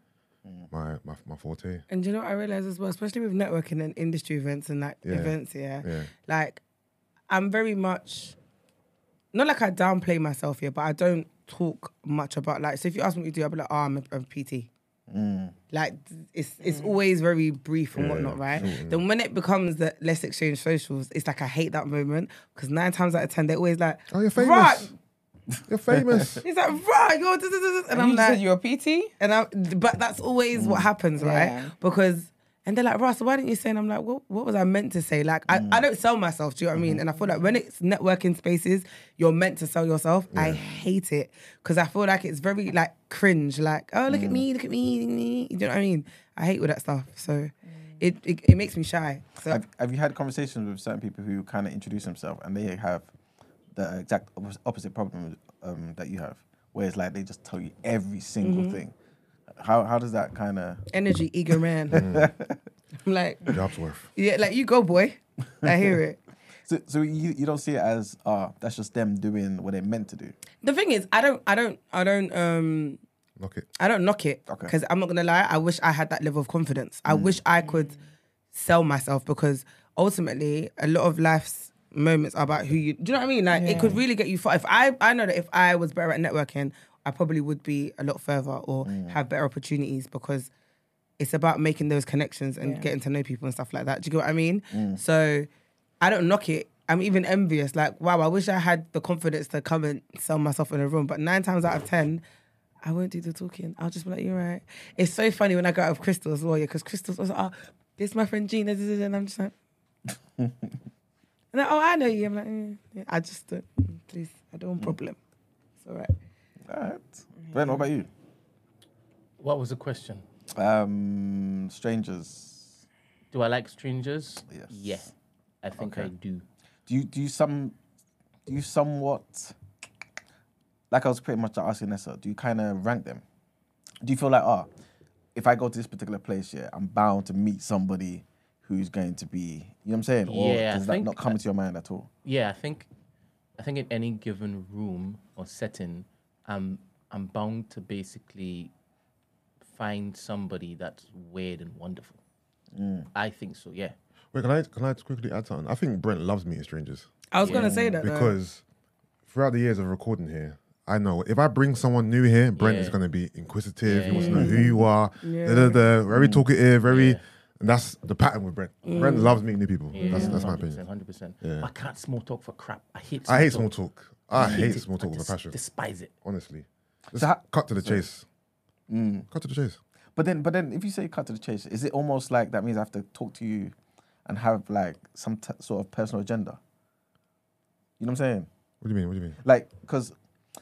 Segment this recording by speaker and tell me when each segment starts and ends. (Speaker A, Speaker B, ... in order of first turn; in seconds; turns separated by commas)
Speaker A: 0.7-1.8, Speaker B: 1.9-6.6, Speaker A: 5.0-6.1, Speaker B: 7.3-8.3, Speaker B: 9.3-14.7, Speaker C: 15.1-15.5, Speaker B: 15.7-24.9, Speaker D: 16.6-16.9, Speaker A: 17.9-19.0, Speaker A: 24.1-24.9, Speaker A: 25.7-26.4, Speaker C: 25.9-26.3, Speaker B: 26.4-28.4, Speaker D: 27.9-29.1, Speaker B: 29.2-49.6, Speaker C: 30.5-30.9, Speaker D: 31.2-31.7, Speaker C: 35.5-35.8, Speaker C: 36.7-37.0, Speaker A: 40.3-40.6, Speaker C: 44.1-44.4, Speaker C: 49.5-53.1, Speaker C: 53.7-58.9, Speaker B: 58.4-58.8, Speaker C: 59.5-60.8, Speaker B: 60.9-62.1, Speaker C: 61.9-62.6, Speaker A: 61.9-62.3, Speaker B: 63.0-63.5, Speaker A: 63.5-64.1, Speaker B: 64.1-66.2, Speaker C: 66.6-70.3, Speaker B: 70.6-73.0, Speaker A: 73.4-73.7, Speaker B: 73.8-77.9, Speaker C: 74.5-74.7, Speaker C: 77.1-77.4, Speaker D: 77.6-78.0, Speaker B: 78.5-90.5, Speaker D: 83.5-84.0, Speaker C: 88.8-89.2, Speaker B: 91.2-95.5, Speaker D: 92.6-92.9, Speaker C: 94.7-95.0, Speaker B: 96.0-102.2, Speaker B: 102.8-109.5, Speaker C: 110.4-110.7, Speaker B: 111.5-115.2, Speaker B: 115.8-116.1, Speaker C: 116.7-118.1, Speaker D: 117.4-117.8, Speaker E: 119.4-120.2, Speaker C: 120.5-122.8, Speaker E: 123.3-126.4, Speaker C: 124.5-125.0, Speaker C: 125.8-126.1, Speaker C: 126.9-127.8, Speaker C: 128.4-129.5, Speaker C: 130.9-133.2, Speaker C: 134.0-134.7, Speaker C: 135.3-142.1, Speaker E: 140.2-141.3, Speaker E: 142.2-142.9, Speaker E: 143.6-148.7, Speaker E: 149.7-152.2, Speaker C: 152.7-153.1, Speaker E: 153.1-153.9, Speaker A: 154.3-157.1, Speaker B: 157.3-158.3, Speaker E: 157.4-157.7, Speaker C: 157.4-158.0, Speaker A: 158.0-158.6, Speaker A: 159.3-170.8, Speaker E: 162.6-163.0, Speaker E: 163.8-164.5, Speaker B: 164.1-165.8, Speaker C: 164.2-164.7, Speaker C: 166.1-166.4, Speaker E: 166.9-167.2, Speaker B: 168.8-169.4, Speaker E: 169.9-173.7, Speaker C: 170.0-170.5, Speaker A: 171.4-171.7, Speaker A: 173.3-175.6, Speaker E: 174.3-176.1, Speaker C: 174.3-174.7, Speaker A: 176.2-178.2, Speaker C: 177.2-178.0, Speaker C: 178.9-179.3, Speaker A: 179.3-179.8, Speaker C: 180.2-186.6, Speaker C: 188.0-188.5, Speaker A: 188.8-189.4, Speaker C: 189.4-190.1